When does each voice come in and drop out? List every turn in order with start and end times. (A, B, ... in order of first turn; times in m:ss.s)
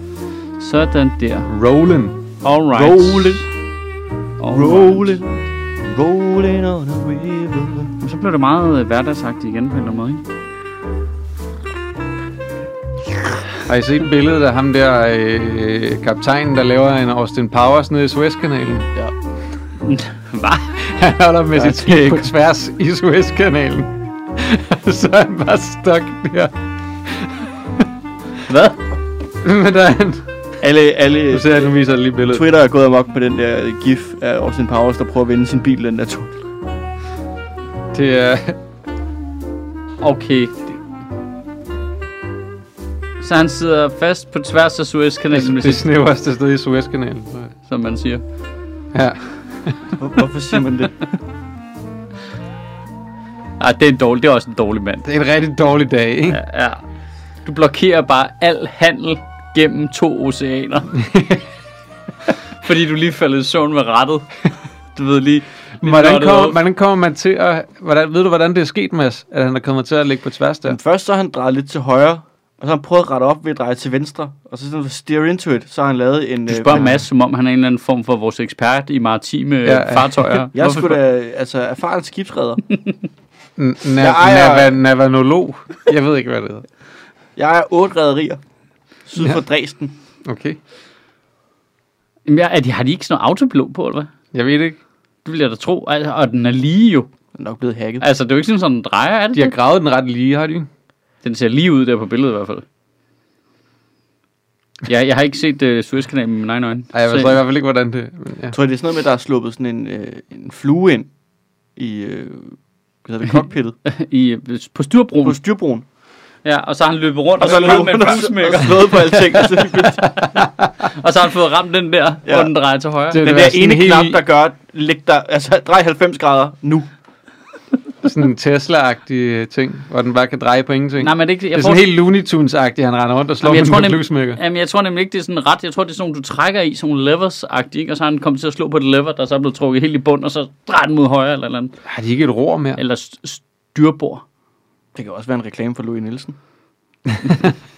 0:00.6-0:01.5 A
0:01.5-0:02.2 B
0:02.4-0:03.4 A
0:02.7-0:03.4 C
0:04.4-0:05.2 A
0:04.5-0:07.9 C
0:08.0-0:10.2 A
0:13.6-0:18.9 B
0:19.8-0:20.8 A
0:20.8-0:26.5 B
0:21.6-0:22.2 C
0:27.0-0:27.5 B
0:28.4-0:28.8 A
0:29.4-0:30.2 B
0:30.6-0:31.7 C
0:31.3-0:32.4 B
0:32.3-0:36.5 C
0:37.9-0:38.6 B
0:40.0-0:40.7 A
0:43.2-0:45.8 A
0:45.3-0:47.5 B
0:47.6-0:48.2 A
0:48.9-0:49.8 B
0:50.0-0:51.1 C
0:53.6-0:55.1 A
0:55.0-0:56.4 B
0:56.3-0:56.8 A
0:57.4-1:00.9 A
1:00.9-1:01.4 B
1:02.6-1:06.6 A
1:05.8-1:10.8 B
1:10.6-1:16.9 C
1:16.5-1:21.0 A
1:19.6-1:20.4 B
1:20.5-1:22.6 C
1:23.6-1:26.6 B
1:24.0-1:24.7 C
1:27.4-1:28.4 C
1:29.1-1:29.9 C
1:30.2-1:30.6 B
1:32.3-1:34.1 A
1:34.3-1:34.8 B
1:35.2-1:37.1 A
1:37.4-1:38.0 C
1:38.0-1:39.5 A
1:39.3-1:40.7 B
1:41.2-1:42.6 A
1:44.8-1:47.3 A
1:46.9-1:48.5 B
1:48.5-1:51.1 C
1:51.8-1:53.8 C
1:53.8-1:55.4 A
1:55.2-1:55.8 C
1:56.4-2:03.2 A
1:57.4-2:00.1 C
2:00.4-2:00.6 B
2:03.1-2:04.2 B
2:03.2-2:06.9 C
2:08.0-2:14.4 B
2:11.0-2:11.9 A
2:13.4-2:21.8 A
2:21.8-2:22.8 B
2:22.8-2:24.2 A
2:24.9-2:26.4 C